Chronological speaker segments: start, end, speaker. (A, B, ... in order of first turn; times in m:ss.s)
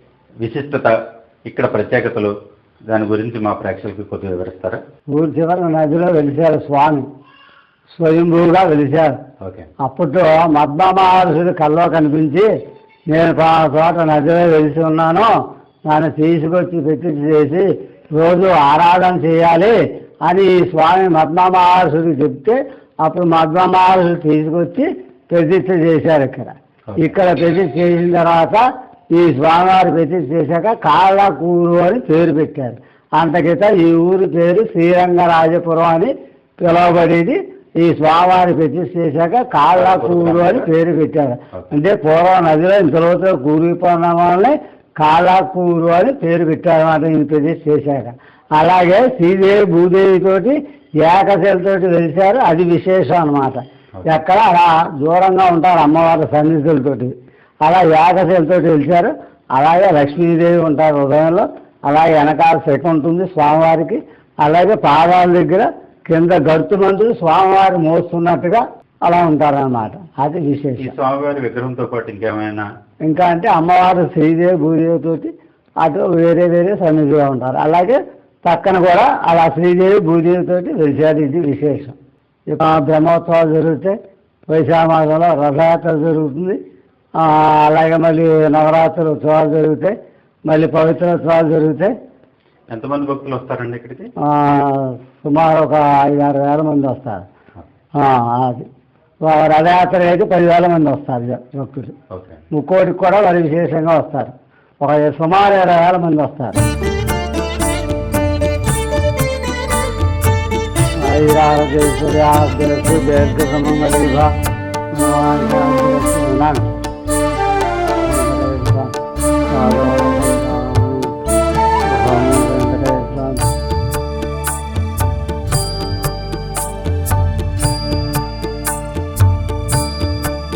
0:00.4-0:00.9 A
0:01.4-0:02.3 A
0:02.9-0:04.8 A
0:05.1-0:07.1 B
0:07.9-0:09.1 B
0:09.4-0:09.7 A
0:09.8-0:12.5 B
0:13.1-0:15.3 B
0:15.8-1:10.9 B
0:39.7-0:40.7 A
1:10.8-1:12.7 A
1:13.1-1:22.0 B
1:22.5-1:24.0 B
1:24.5-1:26.6 B
1:27.2-1:31.9 B
1:32.7-1:34.1 A
1:34.2-1:37.2 B
1:38.0-1:38.7 B
1:39.2-1:41.9 B
1:42.1-1:42.4 A
1:42.5-1:46.6 B
1:51.0-1:54.3 B
1:54.9-1:56.8 B
1:58.0-1:58.9 B
1:59.5-2:01.2 B
2:01.8-2:03.5 B